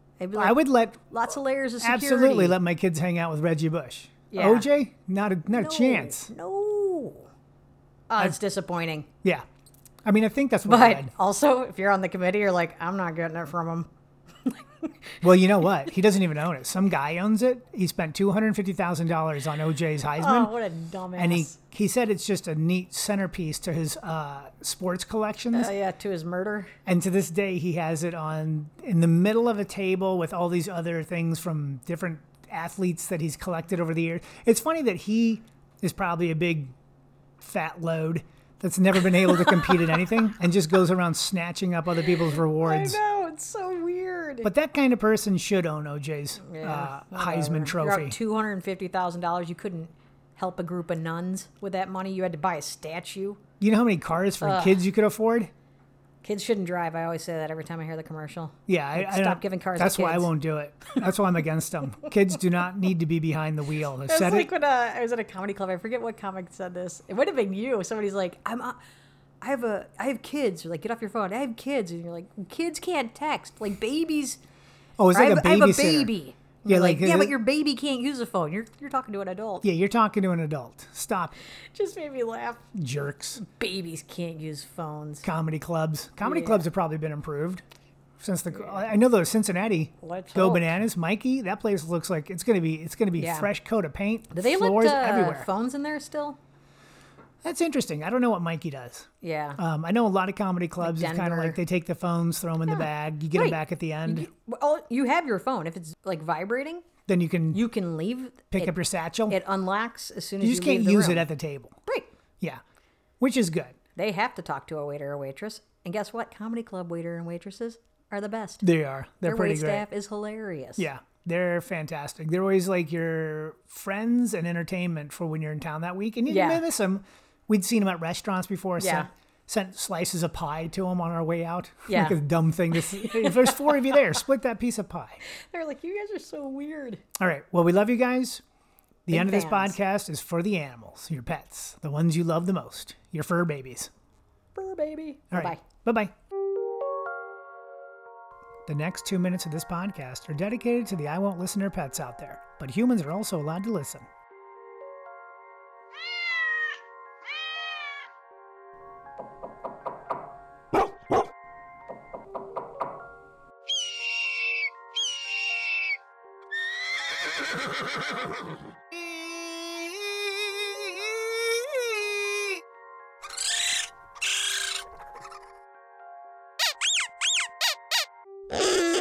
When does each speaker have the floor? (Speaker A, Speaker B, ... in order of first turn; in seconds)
Speaker A: 0.2-2.6, 4.3-4.7, 5.5-7.3, 8.1-9.1, 10.6-13.9, 14.4-15.2, 20.2-21.6, 25.5-26.7, 39.3-39.9, 42.4-44.5, 46.4-53.4, 54.4-54.8, 56.2-60.3, 64.1-68.8, 69.4-74.4, 75.1-79.6, 81.7-82.7, 83.4-85.2, 86.2-86.7, 88.5-88.9, 90.0-90.8, 93.2-93.5, 94.3-96.4, 99.2-99.6, 100.8-101.6, 102.7-106.8, 107.5-108.8, 109.3-111.3, 111.8-112.1, 114.0-118.6, 119.2-120.9, 126.3-126.6, 128.8-129.1, 131.9-132.2, 132.7-134.1, 135.2-137.0, 139.1-139.8, 144.5-145.6
Speaker B: 0.3-1.0, 1.8-6.3, 10.0-11.1, 15.2-20.5, 21.1-25.7, 26.9-36.7, 37.4-43.0, 44.4-48.1, 53.6-55.5, 58.7-64.5, 75.0-76.1, 76.6-77.3, 79.6-81.4, 82.7-83.4, 85.2-87.6, 88.2-95.5, 97.4-104.3, 107.1-107.6, 108.5-109.4, 110.4-111.8, 113.2-113.8, 118.6-119.8, 120.8-135.2, 137.2-138.4, 139.1-143.9, 145.3-146.1, 148.7-154.1